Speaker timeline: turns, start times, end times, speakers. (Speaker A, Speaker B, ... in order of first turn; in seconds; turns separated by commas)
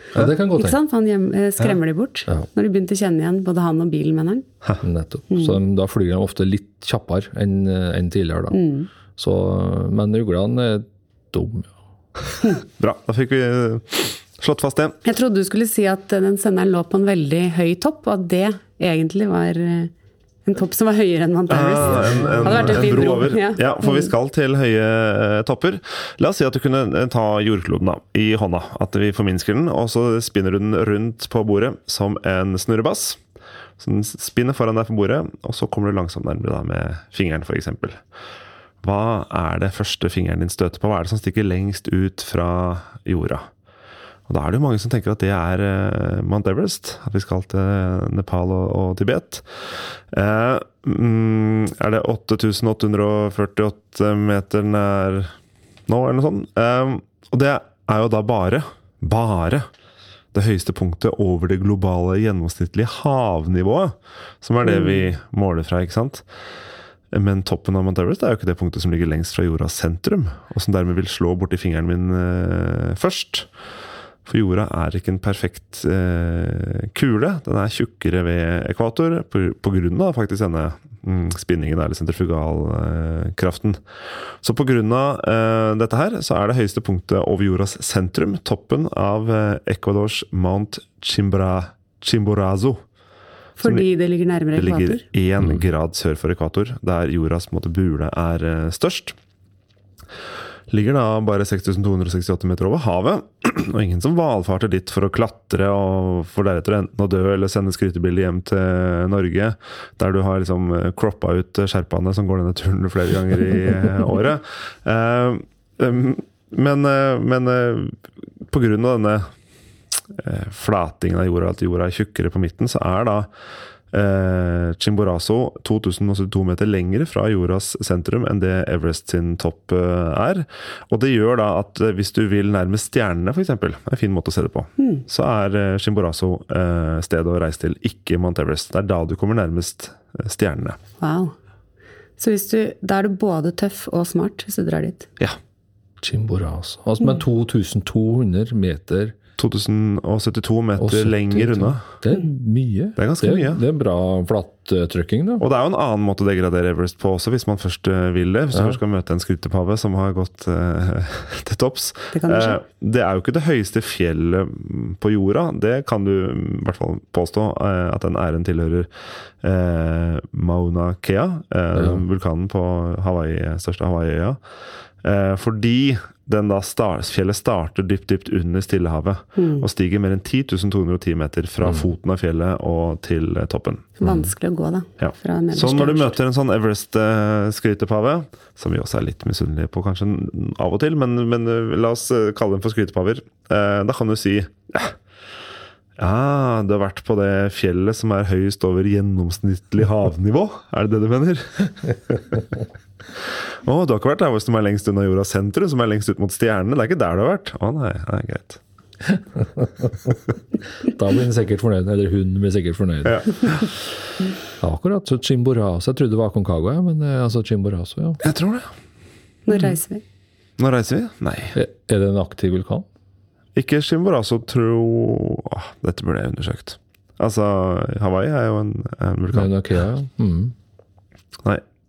Speaker A: 0.1-0.8, Speaker B: 0.5-4.5, Speaker A: 4.8-8.6, Speaker B: 5.3-5.6, Speaker B: 8.5-8.9, Speaker A: 9.2-11.7, Speaker C: 12.8-14.9, Speaker B: 15.0-19.9, Speaker B: 20.4-24.1, Speaker C: 21.5-33.2, Speaker C: 33.8-38.0, Speaker C: 38.8-43.4, Speaker C: 44.3-49.4, Speaker C: 50.1-55.3, Speaker C: 55.9-59.6, Speaker C: 60.3-66.2, Speaker B: 64.6-65.1, Speaker C: 67.1-73.5, Speaker C: 74.3-83.8, Speaker C: 84.4-92.8, Speaker B: 93.6-95.0, Speaker C: 93.6-93.9, Speaker C: 94.5-99.2, Speaker C: 100.7-118.0, Speaker C: 118.5-119.3, Speaker C: 120.2-123.3, Speaker C: 123.9-140.8, Speaker B: 134.8-135.0, Speaker B: 141.0-141.3, Speaker B: 142.2-145.1, Speaker A: 146.0-149.1, Speaker C: 149.4-151.9, Speaker A: 150.8-155.4, Speaker C: 153.0-153.6, Speaker C: 155.4-168.9, Speaker A: 158.5-158.8, Speaker B: 162.1-162.6, Speaker C: 169.4-174.4, Speaker A: 171.7-172.0, Speaker C: 175.0-184.2, Speaker B: 179.3-179.6, Speaker B: 184.0-186.2, Speaker C: 185.0-194.9, Speaker C: 196.0-202.5, Speaker C: 203.6-208.6, Speaker A: 209.1-210.1, Speaker A: 210.8-213.6, Speaker C: 213.1-213.7, Speaker A: 214.6-218.2, Speaker C: 218.2-218.7, Speaker B: 219.5-220.0, Speaker C: 220.6-221.6, Speaker A: 221.5-222.8, Speaker C: 223.6-229.5, Speaker A: 229.3-230.5